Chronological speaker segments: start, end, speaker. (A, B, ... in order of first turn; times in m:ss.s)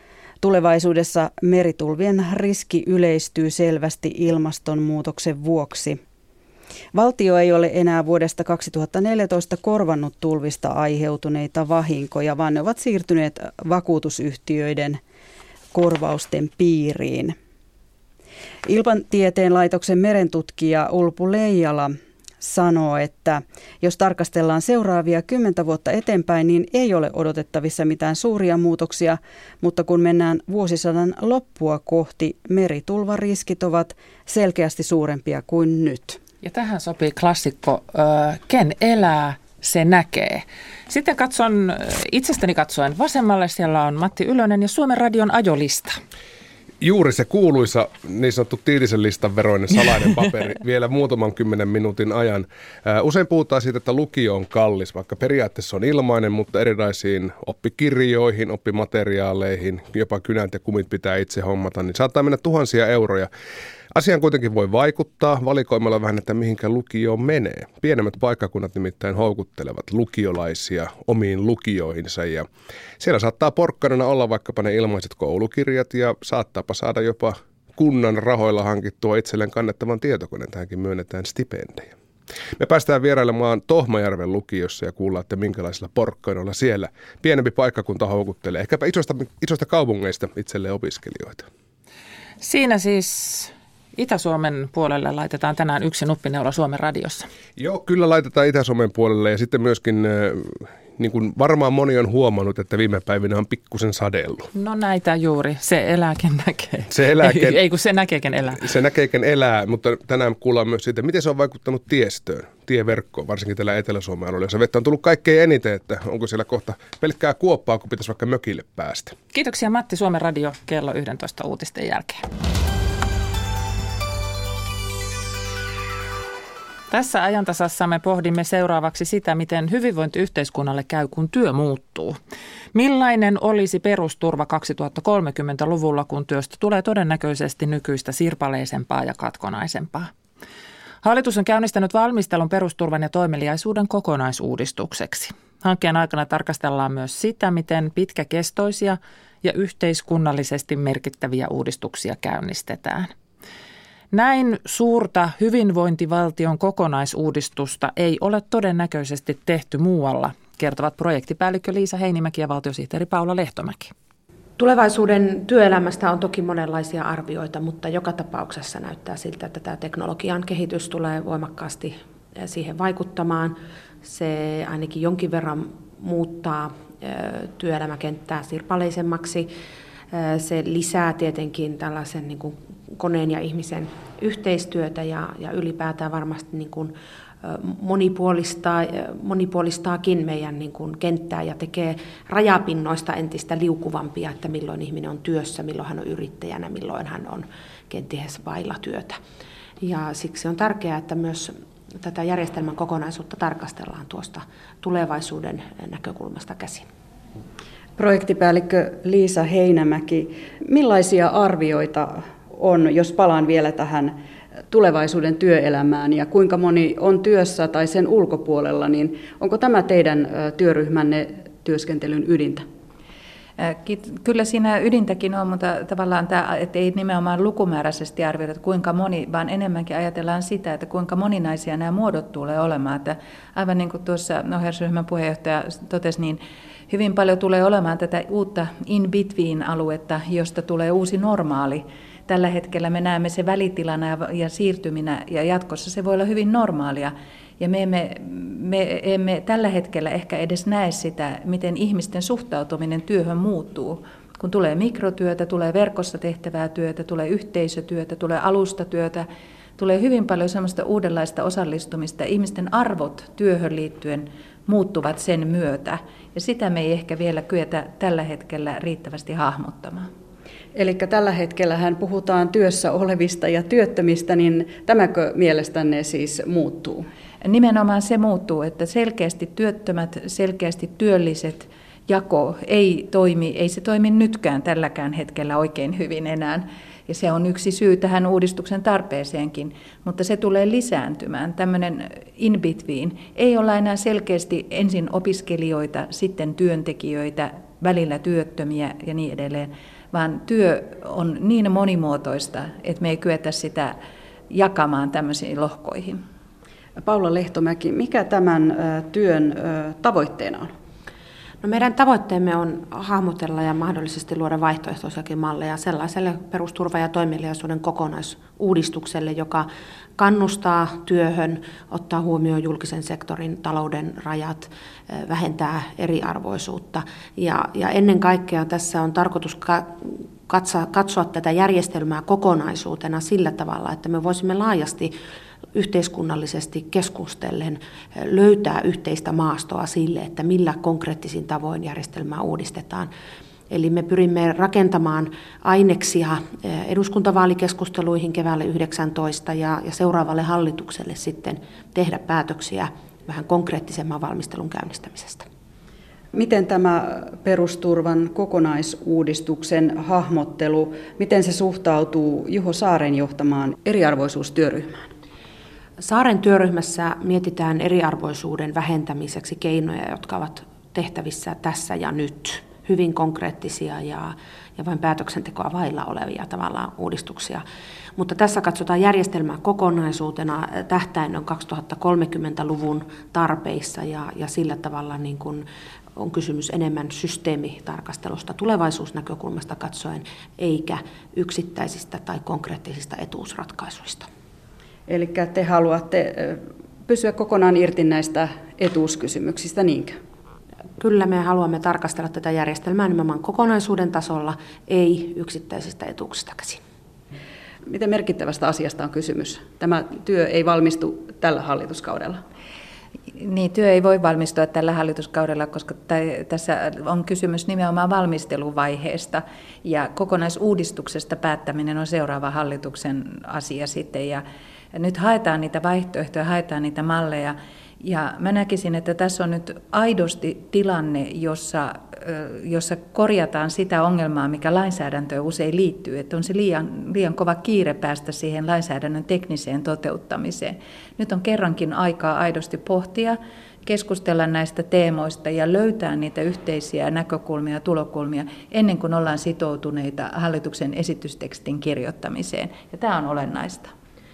0:00.4-0:06.0 A
0:06.9-0:15.0 A
0:15.7-0:17.4 A
0:18.6-0:36.2 A
0:36.4-0:46.0 B
0:46.8-1:03.3 C
1:03.9-1:12.5 C
1:13.0-1:21.9 C
1:22.6-1:31.5 C
1:32.4-1:37.3 B
1:37.6-1:44.5 C
1:44.5-1:48.7 B
1:46.9-1:47.6 C
1:48.6-1:59.2 C
1:59.3-2:02.2 B
2:06.9-2:12.2 B
2:12.7-2:20.1 B
2:21.0-2:33.1 B
2:34.1-2:43.9 B
2:44.6-2:59.5 D
3:00.1-3:19.2 D
3:19.8-3:26.9 D
3:28.0-3:34.2 A
3:34.7-3:42.7 A
3:43.6-4:19.3 E
4:19.8-4:30.1 E
4:30.7-4:37.1 A
4:37.4-5:04.0 E
5:04.5-5:06.2 E
5:07.0-5:10.7 A
5:11.6-5:35.1 D
5:35.7-5:43.1 D
5:43.7-5:55.5 D
5:56.3-6:05.1 A
6:06.0-6:17.6 D
6:18.2-6:25.6 D
6:26.2-6:34.3 D
6:35.1-6:40.2 A
6:41.0-6:46.8 D
6:47.9-6:52.4 A
6:53.3-7:33.9 E